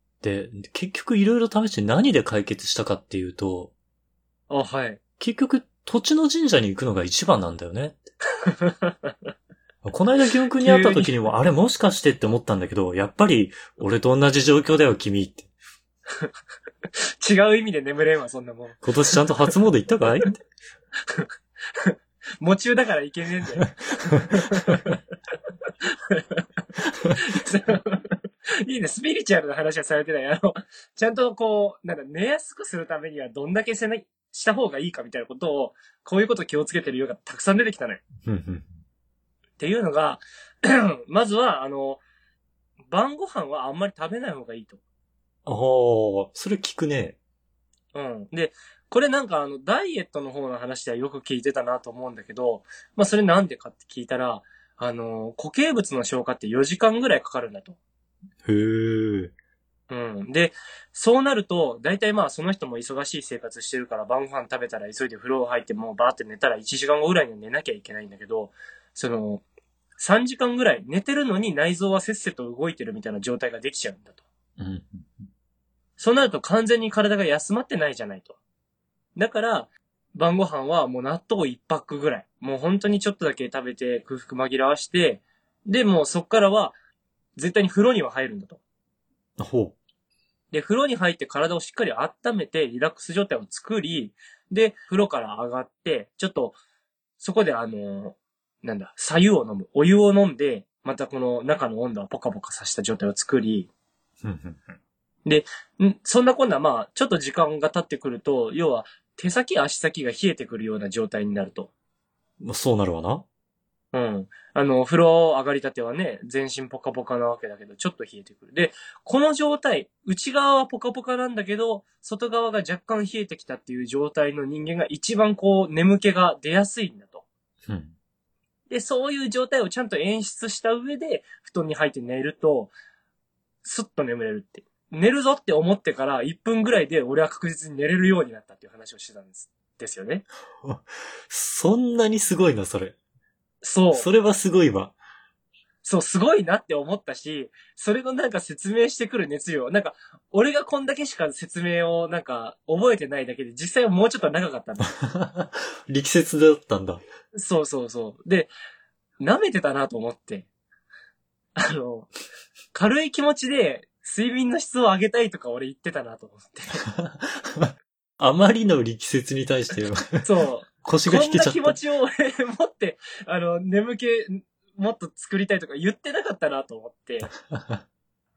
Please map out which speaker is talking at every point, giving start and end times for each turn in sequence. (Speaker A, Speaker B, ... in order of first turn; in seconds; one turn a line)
Speaker A: 0.2-3.7
Speaker B: 4.5-5.0
Speaker A: 5.2-8.0
Speaker B: 8.4-9.1
Speaker A: 9.8-15.5
Speaker B: 10.6-11.1
Speaker B: 17.2-19.5
Speaker A: 18.8-20.4
Speaker B: 21.8-25.0
Speaker B: 25.8-26.4
Speaker B: 27.1-38.0
Speaker A: 38.2-38.7
Speaker B: 39.6-42.0
Speaker B: 42.9-44.8
Speaker A: 45.5-47.2
Speaker B: 47.9-57.8
Speaker A: 58.4-59.3
Speaker B: 59.9-69.4
Speaker B: 70.0-74.2
Speaker A: 74.6-75.3
Speaker B: 76.0-78.4
Speaker B: 79.2-86.8
Speaker B: 87.3-88.6
Speaker A: 89.4-89.7
Speaker B: 90.5-96.6
Speaker B: 97.2-103.7
Speaker A: 104.2-104.7
Speaker B: 105.2-111.7
Speaker A: 112.4-113.2
Speaker B: 113.9-127.2
Speaker A: 127.7-127.9
Speaker B: 128.7-132.7
Speaker B: 133.6-140.2
Speaker A: 140.6-142.9
Speaker B: 143.6-144.1
Speaker A: 143.9-144.9
Speaker B: 145.8-154.9
Speaker A: 154.9-157.0
Speaker B: 157.3-158.5
Speaker B: 159.2-160.5
Speaker B: 161.6-162.1
Speaker B: 162.7-166.8
Speaker A: 166.8-170.2
Speaker B: 170.2-177.3
Speaker A: 170.8-171.8
Speaker A: 177.5-177.8